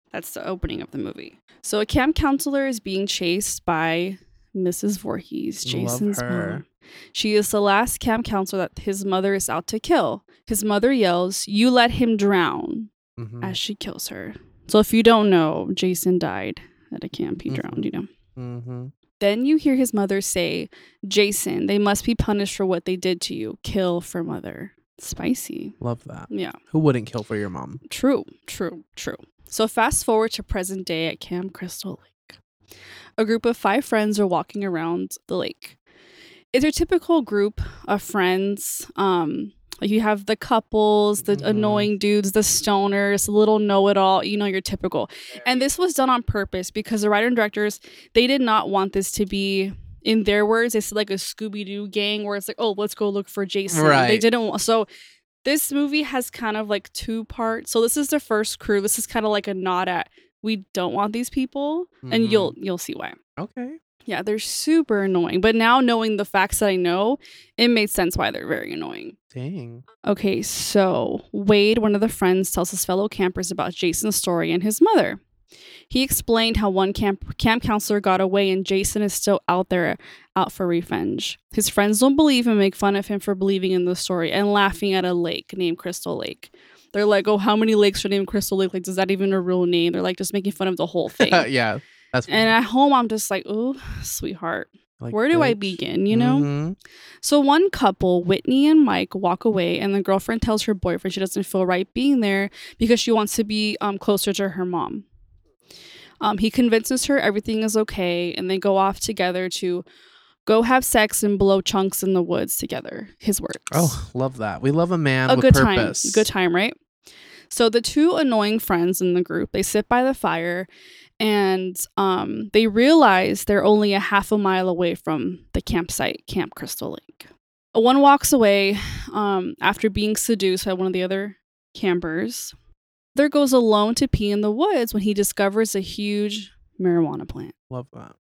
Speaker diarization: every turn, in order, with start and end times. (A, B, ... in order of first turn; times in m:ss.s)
0:00.1-0:12.9 A
0:05.6-0:06.6 B
0:13.2-0:13.6 B
0:13.4-0:18.1 A
0:17.5-0:18.9 B
0:19.2-0:25.8 A
0:25.8-0:27.8 B
0:26.3-0:26.6 A
0:27.9-0:32.4 A
0:33.2-0:35.8 A
0:36.5-0:54.9 A
0:41.3-0:41.9 B
0:53.7-0:54.3 B
0:55.4-1:03.2 A
1:02.0-1:02.6 B
1:03.4-1:03.8 B
1:04.1-1:09.2 A
1:09.3-1:09.8 B
1:10.0-1:15.2 A
1:15.9-1:31.5 A
1:31.1-1:32.5 B
1:32.3-1:36.5 A
1:35.0-1:36.8 B
1:37.2-1:45.1 A
1:46.2-1:49.8 A
1:50.5-1:54.0 A
1:53.7-1:56.3 B
1:55.3-1:56.8 A
1:57.5-2:00.7 A
2:01.2-2:12.6 A
2:13.2-2:17.5 A
2:17.7-2:18.2 B